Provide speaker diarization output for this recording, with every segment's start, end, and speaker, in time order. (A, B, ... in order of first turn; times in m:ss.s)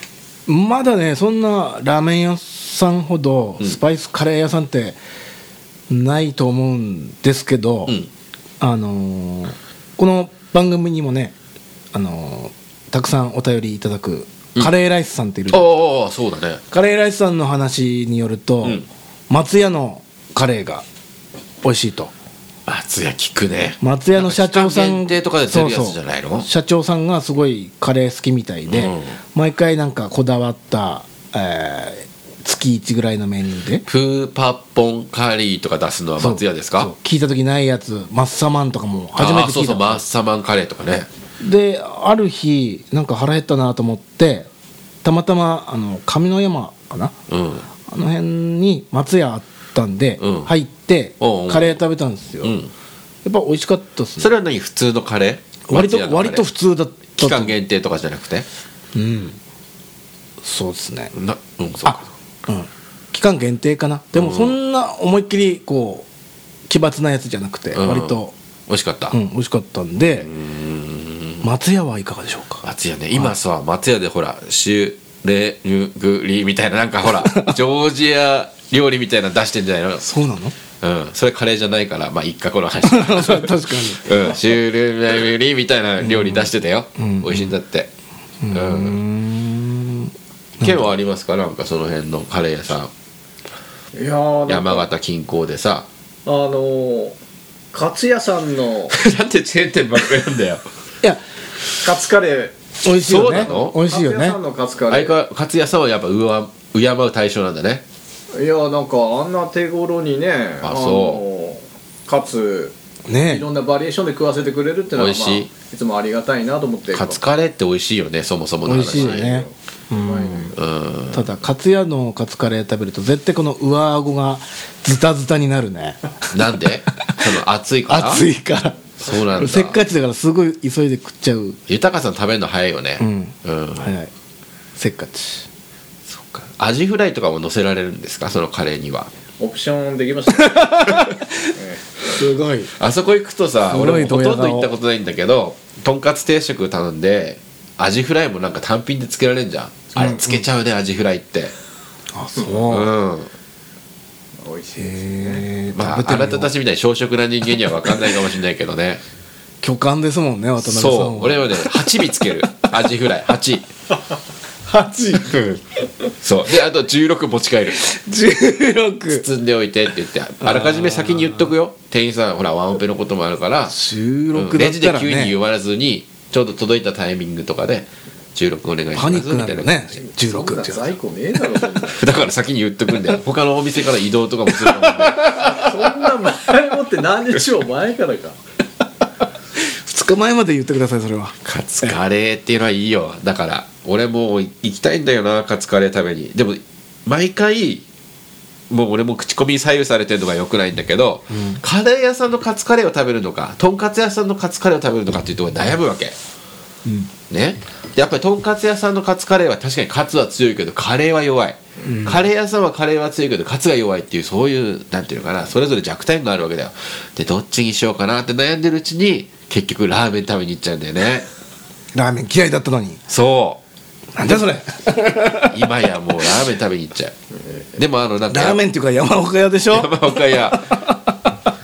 0:00.5-0:05.0 A
0:05.9-0:08.0 A
0:08.6-0:11.3 A
0:11.9-0:15.7 A
0:15.5-0:16.6 B
0:16.7-0:20.8 A
0:21.6-0:22.1 A
0:22.7-0:26.5 B
0:23.8-0:33.8 A
0:28.7-0:29.1 B
0:33.8-0:36.9 B
0:36.2-0:40.0 A
0:39.2-0:41.1 B
0:41.4-0:44.5 A
0:45.0-0:47.1 A
0:47.3-0:47.7 B
0:47.9-0:52.6 A
0:50.2-0:50.5 B
0:51.2-0:51.8 B
0:52.4-0:52.7 B
0:53.2-0:54.3 A
0:54.2-0:56.5 B
0:55.7-0:57.6 A
0:57.1-0:58.4 B
0:58.9-0:59.4 A
1:00.4-1:01.1 A
1:01.1-1:02.1 B
1:01.8-1:06.1 A
1:04.2-1:04.5 B
1:06.7-1:08.3 A
1:07.7-1:09.2 B
1:09.1-1:10.3 A
1:10.2-1:11.4 B
1:11.4-1:13.3 A
1:12.6-1:20.0 B
1:17.0-1:17.6 A
1:20.0-1:20.5 A
1:20.8-1:27.9 B
1:22.8-1:24.4 A
1:26.0-1:27.5 A
1:28.4-1:30.9 A
1:28.5-1:29.0 B
1:30.6-1:32.9 B
1:33.9-1:34.9 C
1:34.5-1:35.9 B
1:36.2-1:37.2 C
1:37.7-1:38.9 C
1:38.9-1:40.6 B
1:41.8-1:42.6 C
1:42.8-1:44.4 A
1:43.0-1:43.8 B
1:43.3-1:45.1 C
1:44.9-1:47.8 B
1:48.3-1:57.2 C
1:50.6-1:51.2 B
1:53.0-1:53.5 A
1:55.0-1:55.5 B
1:56.9-1:59.3 B
1:58.6-2:00.5 A
1:58.8-2:00.6 C
2:00.5-2:01.3 B
2:01.1-2:06.0 A
2:06.3-2:08.3 B
2:07.9-2:11.6 A
2:09.0-2:09.8 B
2:11.7-2:13.9 B
2:13.0-2:14.1 A
2:14.8-2:15.5 A
2:16.1-2:19.1 B
2:19.4-2:22.2 C
2:20.4-2:21.5 A
2:22.1-2:22.7 A
2:22.8-2:31.5 B
2:23.7-2:24.7 A
2:30.0-2:30.4 A
2:32.1-2:32.9 A
2:32.5-2:33.3 B
2:34.4-2:35.5 C
2:34.8-2:36.5 A
2:35.7-2:39.0 B
2:39.6-2:42.9 A
2:40.6-2:43.7 B
2:44.7-2:45.3 C
2:45.1-2:45.6 B
2:46.2-2:47.8 B
2:47.7-2:49.2 A
2:49.1-2:53.8 B
2:50.4-2:51.5 A
2:53.7-2:55.4 A
2:54.3-2:59.7 B
2:58.9-3:00.9 A
3:00.0-3:02.2 C
3:01.9-3:05.6 B
3:04.5-3:05.5 A
3:05.3-3:08.4 C
3:09.6-3:12.0 A
3:11.4-3:17.8 B
3:18.7-3:26.1 B
3:21.3-3:21.6 A
3:26.8-3:27.1 A
3:27.3-3:41.3 B
3:31.8-3:32.2 A
3:41.9-3:43.0 A
3:43.1-3:43.6 B
3:44.1-3:45.8 A
3:45.3-3:47.1 B
3:47.8-3:48.6 B
3:48.3-3:51.3 A
3:49.7-3:50.9 B